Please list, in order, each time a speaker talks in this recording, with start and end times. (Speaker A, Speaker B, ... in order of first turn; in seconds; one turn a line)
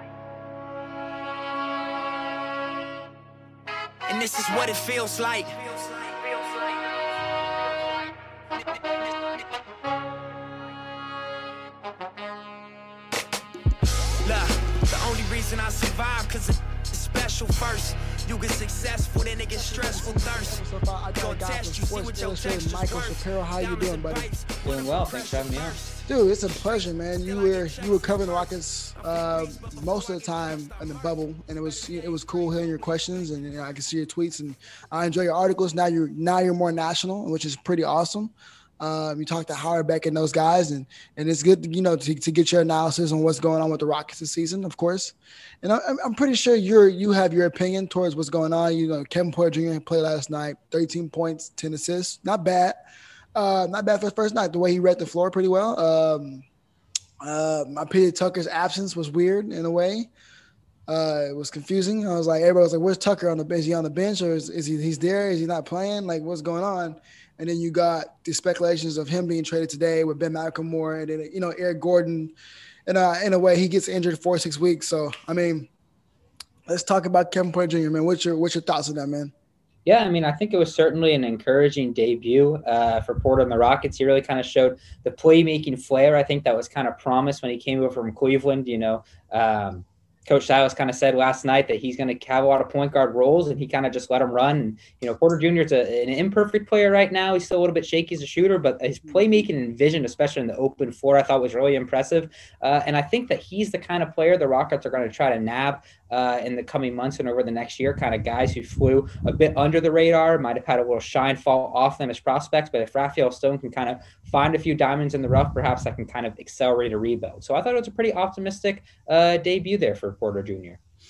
Speaker A: 4.1-7.1
Speaker A: 14.2-20.6
Speaker B: 19.5-24.3
Speaker A: 21.2-32.2
Speaker C: 24.6-25.8
Speaker B: 26.1-52.8
Speaker B: 53.4-56.5
Speaker B: 57.2-60.1
Speaker B: 60.9-72.3
Speaker B: 72.9-75.7
Speaker B: 76.7-79.3
Speaker C: 79.9-120.8
Speaker B: 99.1-99.4